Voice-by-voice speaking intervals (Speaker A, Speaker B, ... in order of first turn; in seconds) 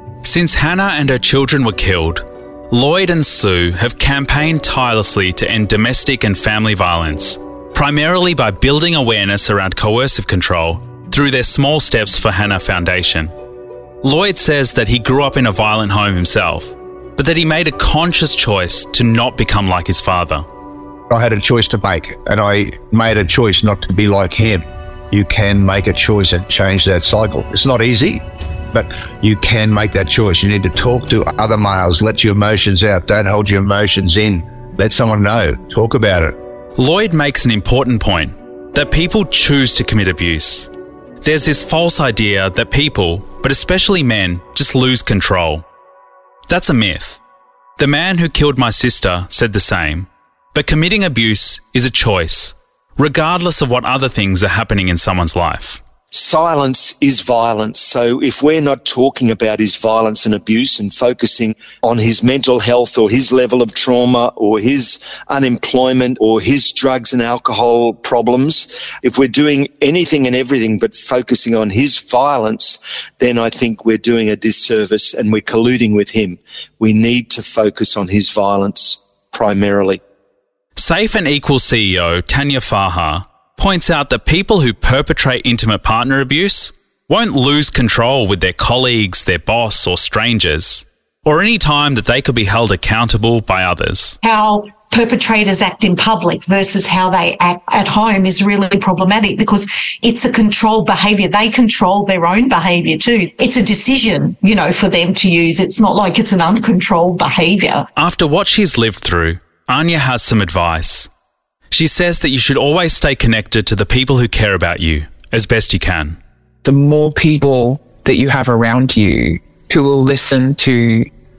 Speaker A: 0.2-13.3, 14.0-20.5, 36.8-45.7, 46.5-47.2, 47.8-55.8, 80.8-94.2, 108.0-111.1, 111.7-116.2
Speaker B: 21.1-36.4
Speaker C: 56.1-80.0
Speaker D: 94.2-107.9
Speaker E: 116.6-121.1